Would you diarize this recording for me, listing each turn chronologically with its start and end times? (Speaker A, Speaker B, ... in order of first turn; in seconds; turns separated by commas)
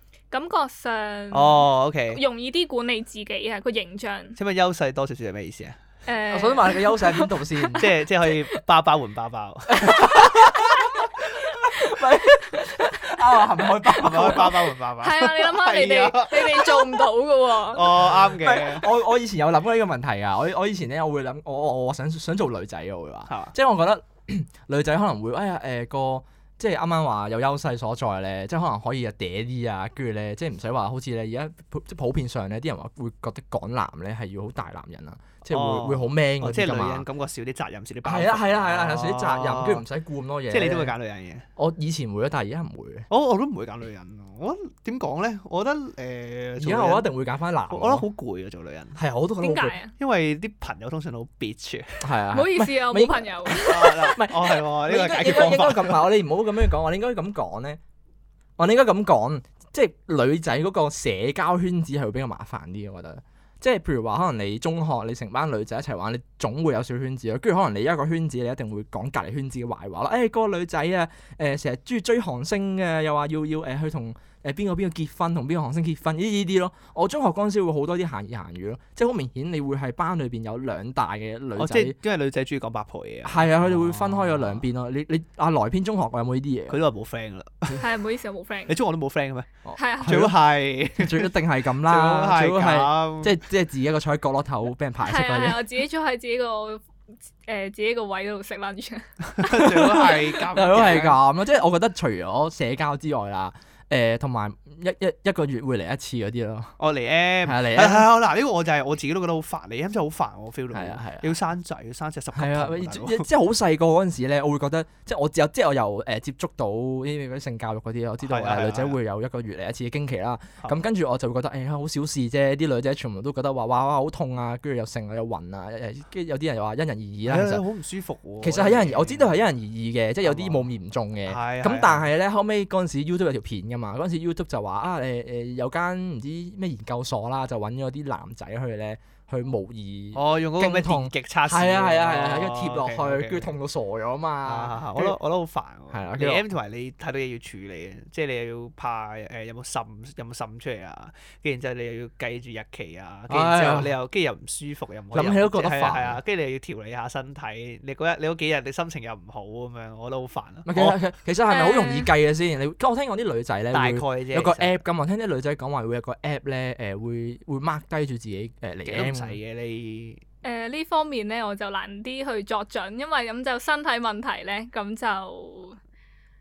Speaker A: 0.3-4.4, Speaker B: 1.3-2.2, Speaker B: 4.4-5.8, Speaker A: 6.1-7.7, Speaker C: 6.3-8.1, Speaker B: 7.8-10.3, Speaker C: 9.7-14.6, Speaker A: 13.7-18.1, Speaker B: 14.0-16.8, Speaker B: 17.7-18.9, Speaker C: 18.3-37.1, Speaker B: 35.5-39.9, Speaker C: 38.0-40.9, Speaker B: 40.5-41.5, Speaker C: 41.6-43.1, Speaker B: 43.1-47.1, Speaker C: 46.6-48.1, Speaker B: 47.7-49.0, Speaker C: 49.0-49.8, Speaker A: 49.4-49.9, Speaker B: 50.0-52.1, Speaker C: 52.0-57.8, Speaker A: 52.3-54.2, Speaker B: 53.6-56.1, Speaker C: 58.6-82.0, Speaker B: 81.6-84.6, Speaker C: 83.2-86.8, Speaker B: 86.7-87.9, Speaker A: 87.8-88.8, Speaker B: 88.7-91.3, Speaker C: 89.7-90.4, Speaker A: 89.8-90.3, Speaker C: 91.0-95.6, Speaker B: 91.8-93.4, Speaker A: 95.0-96.8, Speaker A: 97.5-100.3, Speaker B: 99.4-101.2, Speaker C: 99.8-106.7, Speaker B: 106.8-113.3, Speaker C: 107.4-108.1, Speaker C: 110.7-111.3, Speaker C: 112.3-127.6, Speaker B: 118.2-119.0, Speaker B: 127.3-129.3, Speaker C: 128.4-145.2, Speaker B: 130.2-130.7, Speaker B: 131.3-132.1, Speaker B: 140.2-143.5, Speaker B: 144.4-161.0, Speaker C: 145.9-146.4, Speaker C: 153.3-153.9, Speaker C: 155.1-156.2, Speaker C: 160.7-169.4, Speaker A: 161.5-162.1, Speaker B: 163.7-164.7, Speaker B: 168.9-170.2, Speaker A: 170.4-175.8